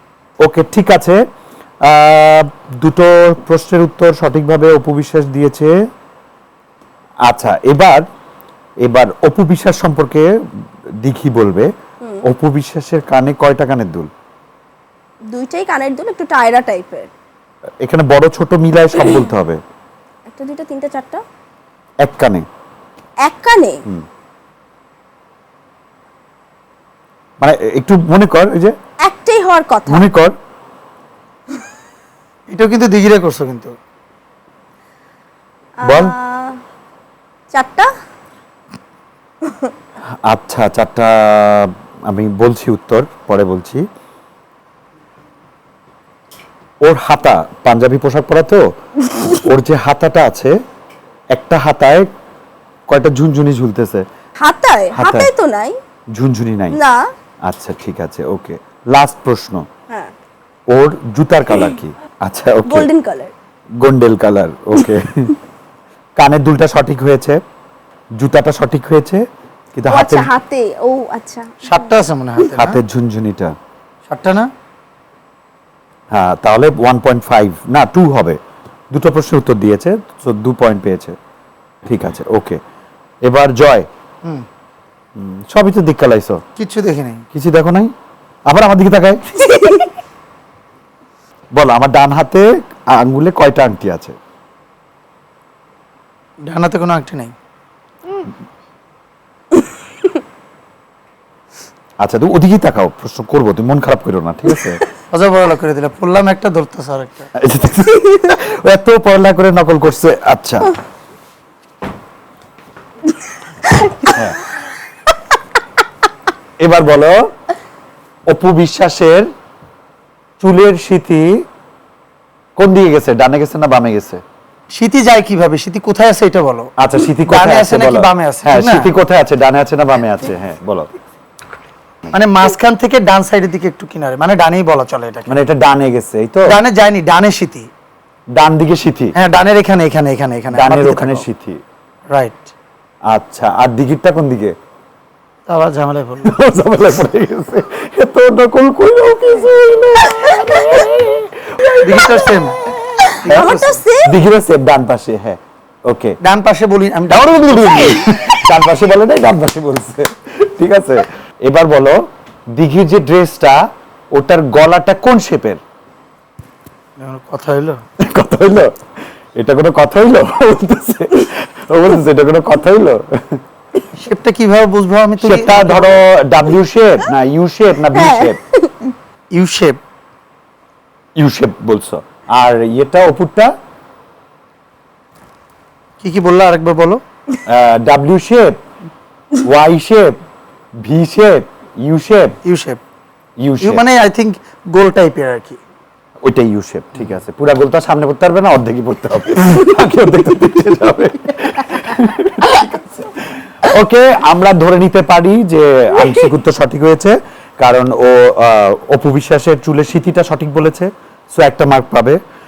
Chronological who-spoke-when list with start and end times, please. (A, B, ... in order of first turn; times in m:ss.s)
0:00.4-0:01.2 A
0:01.8-0:05.7 A
0:07.3-0:08.1 A
0:08.8-0:10.3 A
0:11.0-0:11.7 A
0:12.2-0:14.1 A
0:15.3-0:17.1 B
0:17.8-0:19.6 A
0:20.3-0:21.2 B
0:22.0-0:22.4 A
0:23.2-0:23.8 B
0:27.4-0:28.8 A
0:29.0-0:30.1 B
0:29.9-0:30.3 A
0:32.5-0:33.8 C
0:35.8-0:36.6 B
0:35.8-0:36.2 A
0:37.5-0:37.9 B
0:40.3-0:43.8 A
0:46.8-0:48.7 A
0:49.3-0:50.6 A
0:51.3-0:52.1 A
0:52.9-0:54.1 A
0:54.4-0:55.8 B
0:55.0-0:55.3 A
0:56.2-0:56.8 A
0:56.7-0:57.1 B
0:57.4-0:59.7 A
1:00.7-1:02.9 A
1:02.6-1:03.3 B
1:03.8-1:05.4 A
1:06.2-1:07.4 A
1:08.2-1:09.2 A
1:09.8-1:10.3 A
1:09.9-1:12.0 B
1:11.6-1:12.8 C
1:12.5-1:13.5 A
1:14.1-1:14.5 C
1:16.1-1:18.4 A
1:18.9-1:21.2 A
1:21.8-1:22.6 A
1:23.2-1:23.9 A
1:25.2-1:26.4 A
1:26.6-1:27.2 C
1:27.3-1:27.9 A
1:28.5-1:29.5 A
1:29.4-1:29.9 B
1:31.6-1:34.2 A
1:36.4-1:37.3 C
1:42.0-1:44.8 A
1:45.1-1:47.3 C
1:47.4-1:50.8 A
1:54.0-1:54.4 A
1:56.6-1:57.2 A
1:58.3-1:59.3 A
2:00.4-2:01.3 A
2:02.6-2:04.2 A
2:04.7-2:08.9 C
2:06.8-2:10.9 A
2:12.1-2:15.4 C
2:15.3-2:16.6 A
2:16.5-2:17.7 C
2:18.4-2:19.1 A
2:19.2-2:21.3 C
2:20.5-2:21.6 A
2:22.1-2:22.5 C
2:23.1-2:24.5 A
2:25.5-2:26.3 C
2:26.2-2:31.7 A
2:30.2-2:30.8 B
2:31.7-2:32.2 B
2:31.8-2:32.7 C
2:32.8-2:34.2 B
2:33.2-2:33.8 C
2:34.0-2:36.2 A
2:36.2-2:38.1 C
2:37.1-2:42.0 A
2:42.5-2:45.6 A
2:47.0-2:47.8 C
2:48.0-2:48.8 A
2:49.4-2:53.4 A
2:54.0-2:56.0 C
2:55.2-2:58.4 A
2:57.9-2:58.7 B
2:59.3-2:59.8 C
3:01.2-3:03.5 A
3:06.0-3:07.0 C
3:07.5-3:08.6 A
3:09.4-3:10.2 A
3:10.8-3:12.4 A
3:12.4-3:12.8 C
3:13.4-3:13.8 A
3:13.6-3:15.6 C
3:16.2-3:32.2 A